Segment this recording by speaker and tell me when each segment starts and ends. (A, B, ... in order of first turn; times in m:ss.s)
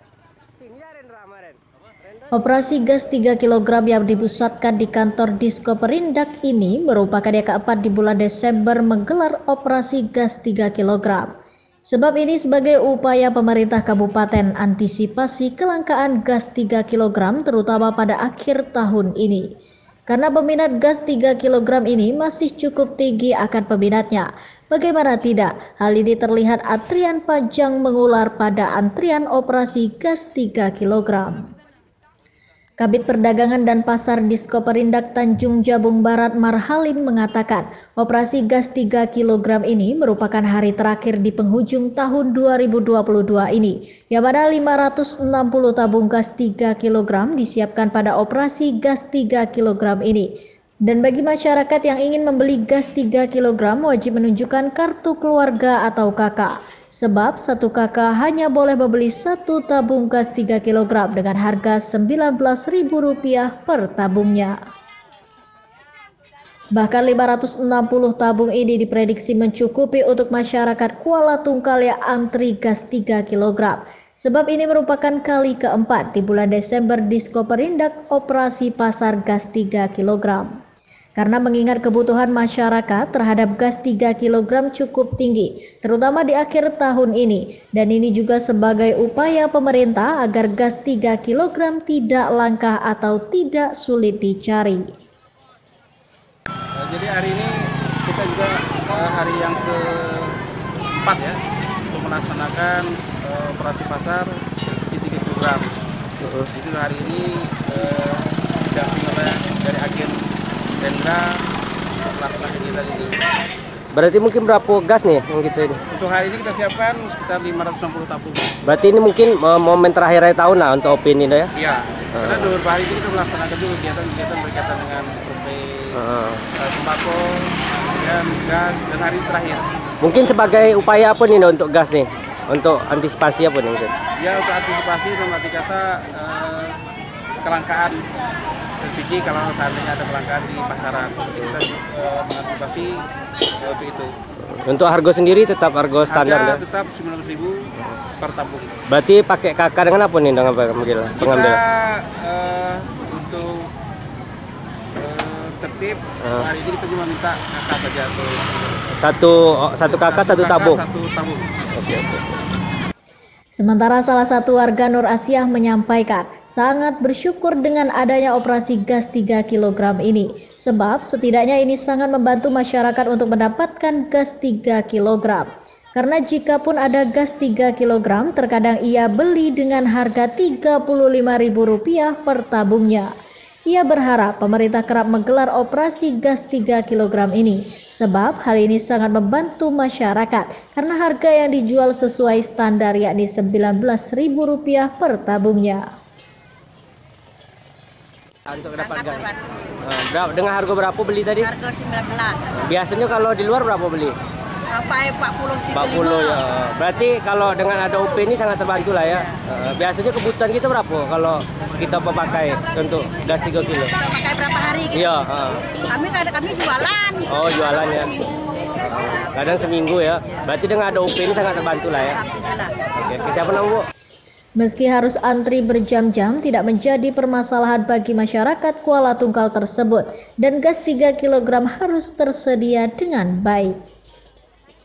0:00.6-0:01.6 A
0:02.3-0:11.3 B
0:11.9-0:19.5 B
0:20.1-0:31.5 B
0:32.8-1:04.6 B
1:06.8-1:20.6 B
1:21.2-1:35.0 B
1:36.8-1:37.5 C
1:38.0-1:40.4 C
1:41.0-1:41.4 C
1:41.9-1:45.7 C
1:46.2-1:46.5 A
1:46.5-1:50.2 C
1:50.8-1:51.4 C
1:52.1-1:53.2 C
1:53.9-1:55.8 A
1:55.9-1:58.6 C
1:58.6-2:01.5 A
2:01.6-2:06.0 C
2:02.2-2:02.5 A
2:05.9-2:06.5 A
2:06.6-2:09.7 C
2:10.0-2:13.9 A
2:14.2-2:16.8 C
2:17.4-2:18.0 C
2:18.8-2:23.0 C
2:23.6-2:24.2 C
2:24.5-2:26.6 A
2:26.1-2:28.8 C
2:28.9-2:31.6 A
2:31.2-2:33.7 C
2:35.0-2:38.9 C
2:39.0-2:40.8 A
2:39.8-2:41.5 C
2:41.7-2:42.4 A
2:43.5-3:03.1 B
3:03.7-3:15.9 B
3:18.5-3:21.6 A
3:21.9-3:22.3 D
3:22.5-3:24.2 A
3:24.8-3:25.7 D
3:25.6-3:34.1 A
3:34.3-3:34.9 D
3:34.8-3:35.8 A
3:35.9-3:37.2 D
3:37.2-3:42.2 A
3:42.9-3:43.9 A
3:44.6-3:53.8 B